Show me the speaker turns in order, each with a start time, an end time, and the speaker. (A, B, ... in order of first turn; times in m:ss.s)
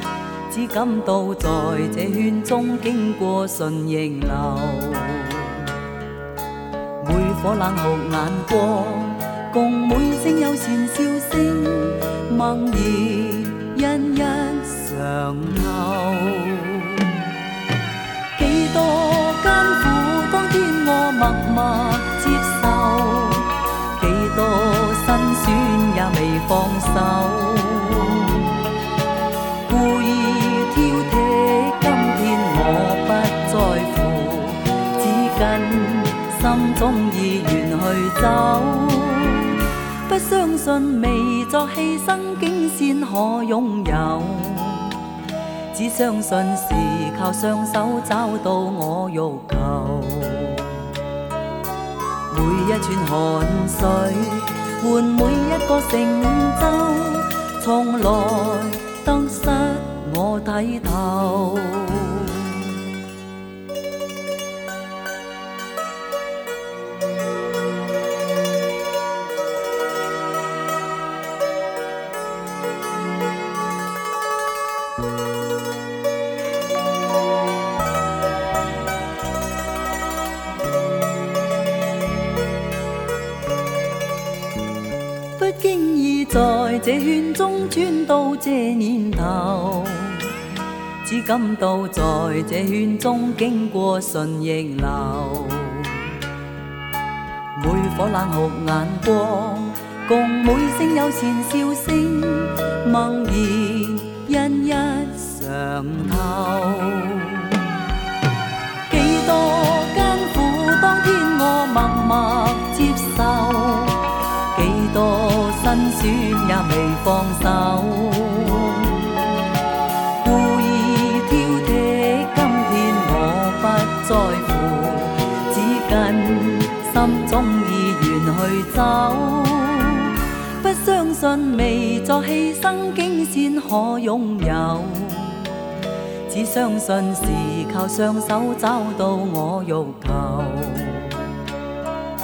0:00.5-0:05.7 A
0:07.0-0:17.1 A
0:18.4-0:28.6 A
0:29.7-0:45.0 A
0:45.7-0:50.9 A
0:52.3-1:02.8 A
1:25.4-1:30.3 A
1:31.0-1:36.2 A
1:37.6-1:47.6 A
1:48.9-1:54.0 A
1:54.5-1:59.3 A
2:00.2-2:15.5 A
2:16.3-2:21.2 A